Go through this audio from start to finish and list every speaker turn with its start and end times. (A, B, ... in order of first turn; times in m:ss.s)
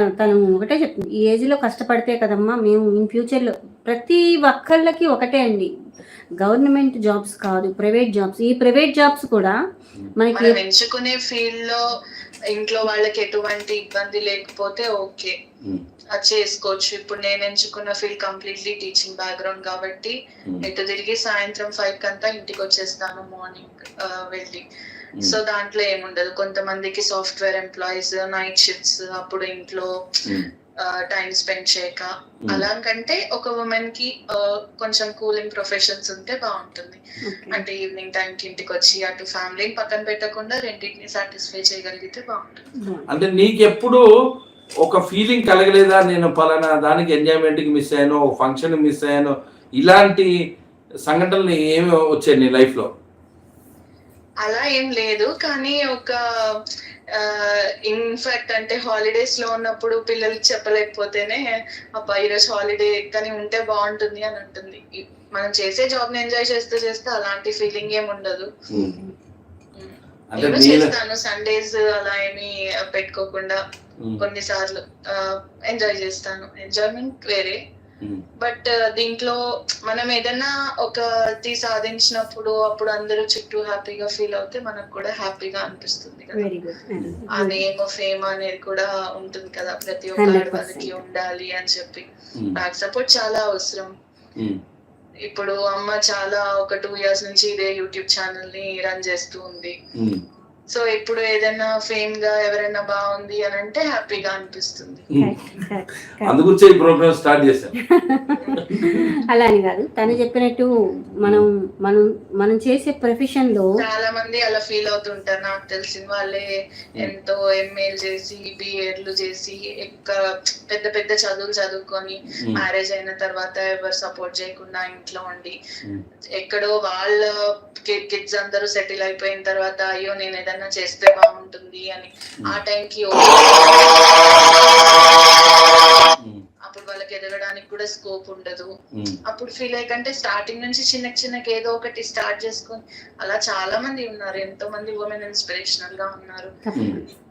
0:00.2-0:05.7 A
0:06.4-0:09.6 A
0:10.2-0:10.6 A
0:10.3-0:11.9 B
0:12.5-0:15.3 B
0:16.2-0:24.6 B
0:25.2-0:42.7 B
0:37.3-0:37.6 A
0:42.8-0:43.1 A
0:43.1-0:44.0 C
0:44.8-0:50.3 C
0:51.1-0:52.9 C
0:54.4-0:56.6 B
0:57.2-1:04.8 B
1:05.3-1:08.5 B
1:08.7-1:09.0 C
1:09.7-1:13.6 B
1:10.3-1:10.9 C
1:14.2-1:17.6 B
1:18.4-1:26.5 B
1:26.3-1:27.6 A
1:27.3-1:33.9 B
1:30.2-1:31.0 A
1:35.3-1:39.7 B
1:40.0-1:40.2 C
1:40.7-1:45.1 B
1:45.2-1:45.6 C
1:45.2-1:46.4 A
1:46.2-1:47.8 C
1:47.9-1:53.7 A
1:48.4-1:48.7 B
1:48.5-1:49.1 C
1:53.8-2:05.6 B
2:06.4-2:16.1 B
2:16.7-2:18.7 B
2:19.3-2:26.6 B
2:26.7-2:27.1 A